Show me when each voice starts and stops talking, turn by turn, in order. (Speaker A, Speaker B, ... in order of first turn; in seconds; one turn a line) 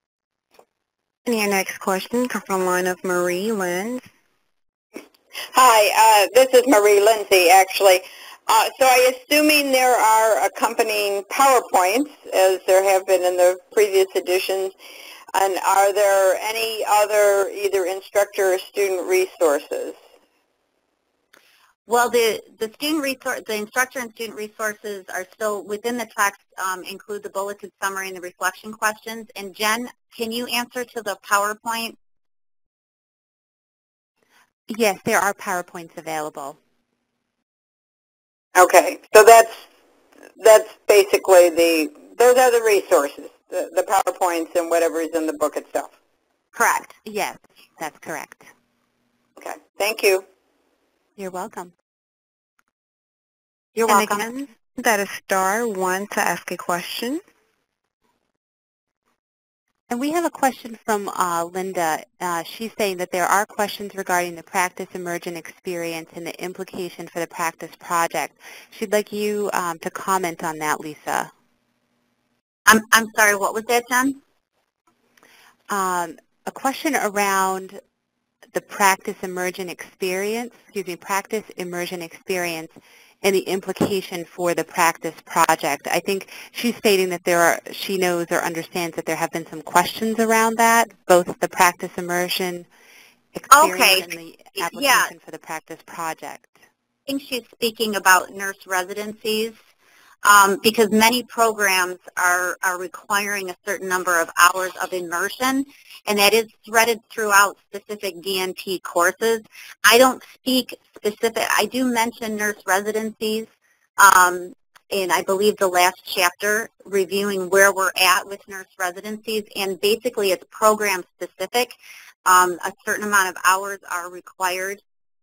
Speaker A: 1.3-4.0
Speaker B: 5.5-14.7
Speaker B: 15.3-20.0
Speaker C: 21.9-32.0
Speaker D: 34.7-36.6
Speaker B: 38.5-39.6
Speaker B: 40.4-45.9
Speaker C: 46.5-47.0
Speaker D: 47.0-48.5
Speaker B: 49.4-50.2
Speaker D: 51.2-51.7
Speaker C: 53.8-54.3
Speaker A: 53.9-57.2
Speaker D: 59.9-71.3
Speaker C: 72.7-74.2
Speaker D: 75.7-77.8
Speaker D: 78.5-92.7
Speaker D: 93.3-96.5
Speaker C: 93.5-95.1
Speaker C: 97.1-99.6
Speaker C: 100.2-124.8